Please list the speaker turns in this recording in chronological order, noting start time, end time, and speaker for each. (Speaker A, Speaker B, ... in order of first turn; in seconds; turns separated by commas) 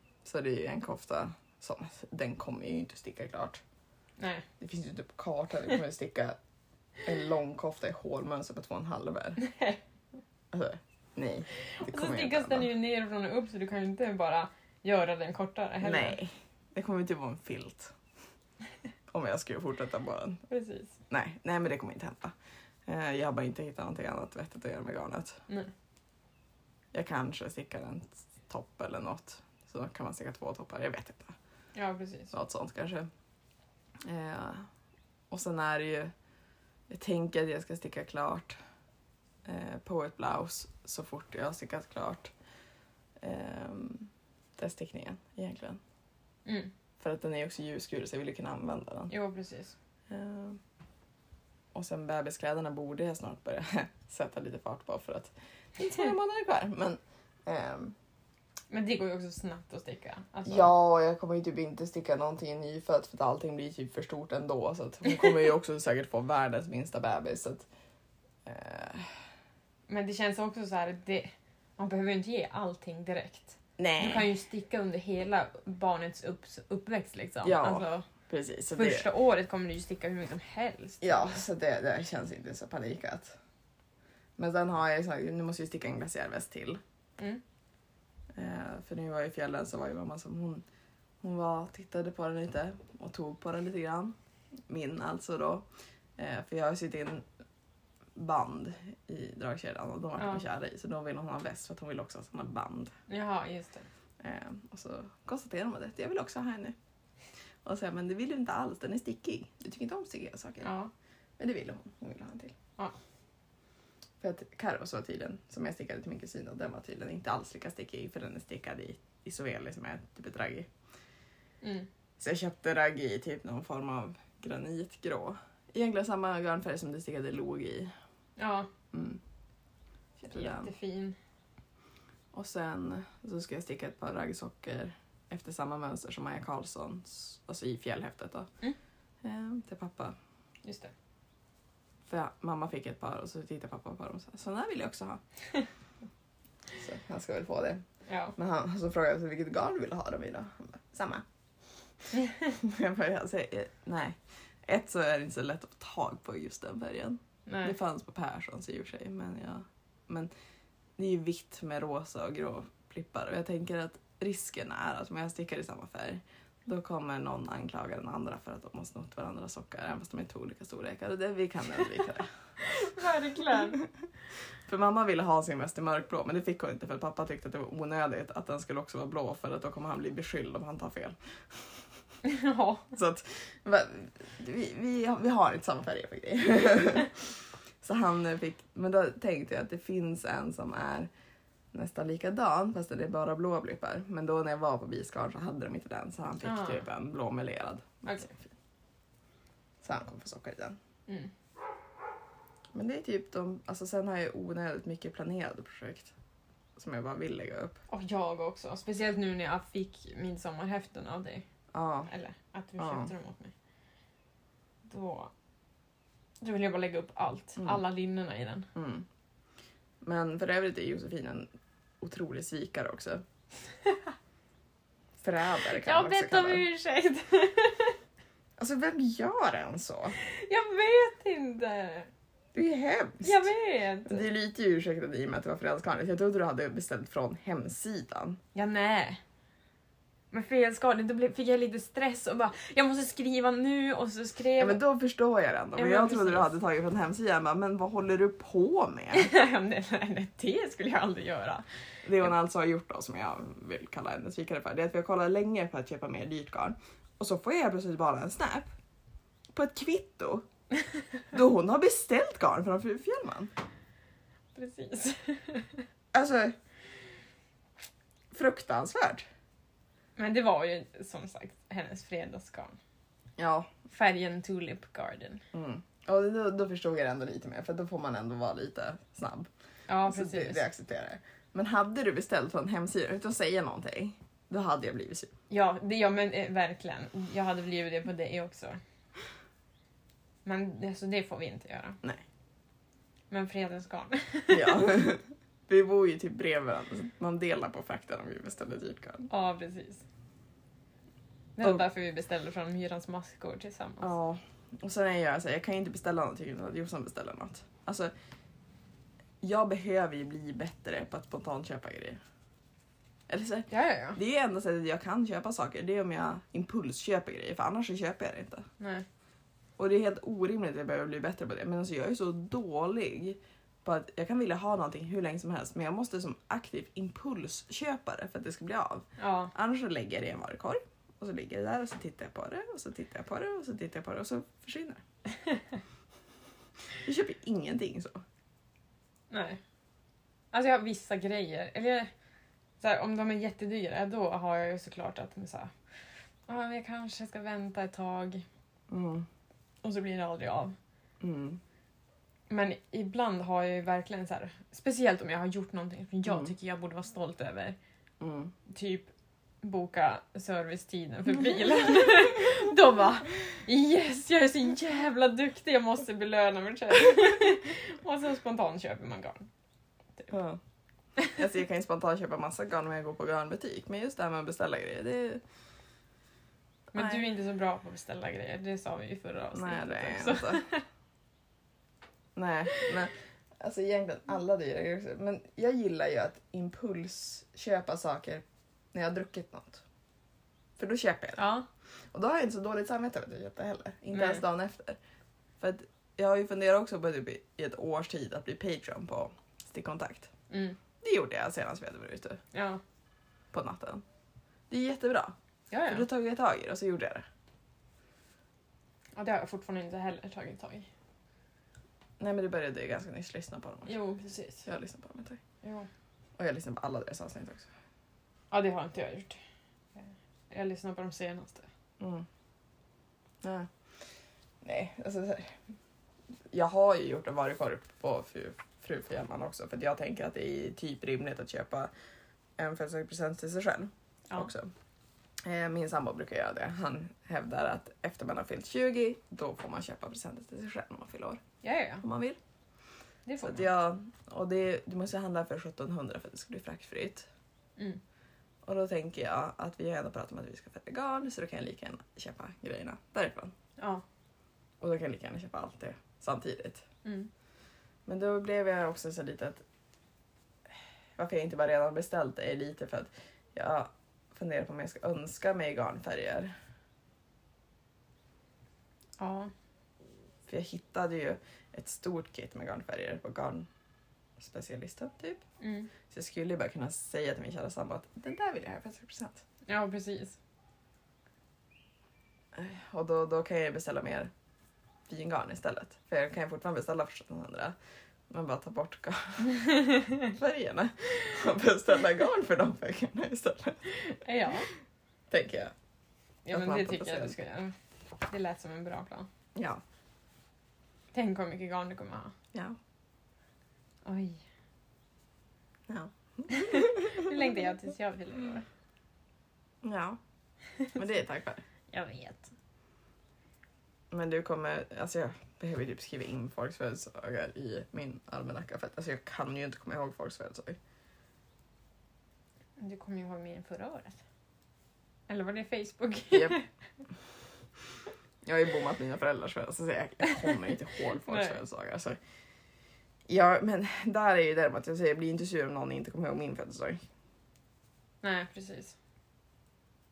Speaker A: 0.2-3.6, Speaker B: 4.2-4.5, Speaker A: 4.6-6.4, Speaker A: 7.0-9.4, Speaker B: 9.4-9.8, Speaker A: 10.5-12.7, Speaker B: 11.8-16.2, Speaker A: 15.8-17.9, Speaker A: 19.1-20.4, Speaker B: 20.5-21.0, Speaker A: 21.1-22.3, Speaker A: 22.9-25.4, Speaker A: 26.9-31.4, Speaker B: 31.8-32.3, Speaker A: 32.3-33.1, Speaker A: 34.0-34.7, Speaker A: 35.3-36.1, Speaker A: 36.9-38.6, Speaker A: 39.5-42.3, Speaker A: 43.2-45.8, Speaker B: 46.5-46.7, Speaker A: 47.0-49.1, Speaker B: 49.1-49.8, Speaker A: 50.1-50.6, Speaker A: 51.7-58.0, Speaker B: 58.7-60.7, Speaker A: 60.5-67.7, Speaker A: 68.5-69.2, Speaker B: 69.9-78.1, Speaker A: 73.8-74.3, Speaker A: 77.4-79.1, Speaker B: 78.7-81.4, Speaker A: 81.0-83.4, Speaker A: 84.4-86.8, Speaker A: 88.3-90.6, Speaker A: 91.2-94.2, Speaker A: 94.7-97.2, Speaker A: 98.2-102.9, Speaker B: 100.2-100.4, Speaker B: 103.1-103.9, Speaker A: 104.2-106.8, Speaker A: 107.7-110.7, Speaker B: 110.6-110.9, Speaker A: 111.4-112.5, Speaker A: 114.2-120.7, Speaker B: 121.6-121.9, Speaker A: 122.2-127.9, Speaker B: 128.4-128.7, Speaker A: 128.9-129.2, Speaker A: 130.2-130.7, Speaker B: 130.3-131.2, Speaker A: 132.3-138.5, Speaker A: 139.2-140.2, Speaker B: 140.7-140.9, Speaker A: 142.1-145.2, Speaker A: 146.8-147.8, Speaker B: 148.1-148.3, Speaker A: 148.4-151.2, Speaker A: 152.5-160.3, Speaker B: 157.5-157.8, Speaker A: 161.0-172.3, Speaker B: 172.6-173.8, Speaker A: 174.7-181.2, Speaker B: 182.2-182.9, Speaker A: 182.9-187.3, Speaker A: 187.8-191.1, Speaker A: 191.7-198.4, Speaker B: 196.4-196.8, Speaker A: 199.8-200.8, Speaker A: 202.7-206.1, Speaker A: 206.8-207.8, Speaker B: 207.9-211.4, Speaker A: 211.7-212.1, Speaker B: 212.1-213.5, Speaker A: 212.8-213.1, Speaker B: 214.8-215.3, Speaker B: 216.4-218.7, Speaker A: 218.8-219.1, Speaker A: 220.0-221.5, Speaker A: 222.0-223.2, Speaker A: 225.2-226.7, Speaker B: 225.8-228.0, Speaker A: 228.6-230.2, Speaker B: 230.2-232.1, Speaker A: 232.5-233.5, Speaker B: 233.2-234.2, Speaker A: 234.1-238.4, Speaker B: 238.6-239.2, Speaker B: 240.3-244.8, Speaker A: 244.6-249.3, Speaker B: 245.8-246.5, Speaker B: 249.1-251.7, Speaker A: 252.0-258.7, Speaker A: 259.5-260.5, Speaker A: 261.3-263.5, Speaker B: 264.6-265.9, Speaker A: 266.1-266.6, Speaker A: 268.3-269.2, Speaker B: 270.2-272.8, Speaker A: 273.4-273.7, Speaker B: 273.9-275.4, Speaker A: 275.5-279.5, Speaker B: 279.9-280.6, Speaker A: 280.0-285.3, Speaker B: 285.5-288.8, Speaker B: 290.4-292.0, Speaker B: 293.3-294.9, Speaker A: 294.5-299.3, Speaker B: 299.3-300.0, Speaker B: 301.6-304.1, Speaker A: 304.0-308.1, Speaker A: 309.4-312.2, Speaker A: 313.3-318.7, Speaker B: 313.7-314.2, Speaker B: 318.8-319.1, Speaker A: 319.8-335.0, Speaker B: 329.2-329.5, Speaker A: 337.1-338.2, Speaker B: 339.3-339.6, Speaker B: 340.5-342.1, Speaker B: 342.8-345.7, Speaker B: 346.5-348.4, Speaker A: 348.9-349.3, Speaker B: 349.8-350.8, Speaker A: 351.2-351.6, Speaker B: 352.5-357.8, Speaker A: 356.3-356.5, Speaker A: 358.2-358.5, Speaker B: 358.7-359.1, Speaker B: 359.6-369.5, Speaker A: 370.3-370.6, Speaker A: 371.3-375.4, Speaker B: 376.9-380.8, Speaker A: 376.9-377.2, Speaker A: 379.5-380.6, Speaker A: 382.4-389.8, Speaker A: 390.8-391.4, Speaker B: 391.4-391.7, Speaker A: 392.1-395.0, Speaker B: 394.1-394.4, Speaker A: 395.6-400.3, Speaker B: 400.5-400.8, Speaker A: 401.0-402.4, Speaker B: 402.5-402.8, Speaker A: 403.5-404.0, Speaker A: 404.7-405.4, Speaker B: 405.7-406.1, Speaker A: 405.9-407.3, Speaker B: 409.2-410.9, Speaker A: 412.2-414.0, Speaker B: 413.9-414.7, Speaker A: 414.6-415.4, Speaker B: 415.6-415.9, Speaker A: 416.4-417.7, Speaker B: 418.5-419.4, Speaker B: 420.5-421.7, Speaker A: 422.0-422.3, Speaker A: 423.4-423.7, Speaker A: 424.6-425.6, Speaker A: 426.5-431.9, Speaker A: 432.6-434.7, Speaker A: 435.4-441.4, Speaker B: 441.6-442.1, Speaker A: 442.0-442.4, Speaker B: 443.3-443.7, Speaker A: 443.4-447.3, Speaker A: 448.6-453.5, Speaker B: 453.8-454.0, Speaker A: 454.8-456.9, Speaker B: 457.0-457.3, Speaker A: 458.1-459.6, Speaker A: 461.2-466.5, Speaker B: 469.2-469.5, Speaker A: 470.5-473.7, Speaker A: 474.4-475.4, Speaker B: 475.6-475.9, Speaker A: 476.1-479.4, Speaker B: 479.7-480.4, Speaker A: 482.5-484.3, Speaker A: 485.1-487.8, Speaker A: 488.3-494.1, Speaker B: 489.7-490.2, Speaker B: 494.1-494.7, Speaker A: 495.3-495.7, Speaker B: 496.5-497.7, Speaker A: 496.5-497.4, Speaker B: 498.3-499.3, Speaker A: 499.6-499.8, Speaker B: 501.1-502.3, Speaker A: 502.5-502.8, Speaker B: 504.1-504.4, Speaker A: 505.9-507.3, Speaker B: 506.5-508.7, Speaker A: 509.8-510.2, Speaker A: 510.9-511.6, Speaker B: 511.9-512.5, Speaker A: 514.1-520.8, Speaker B: 522.8-524.2, Speaker B: 525.3-526.7, Speaker A: 526.3-526.6, Speaker A: 528.5-532.2, Speaker B: 531.2-531.6, Speaker A: 533.3-537.0, Speaker B: 538.2-539.0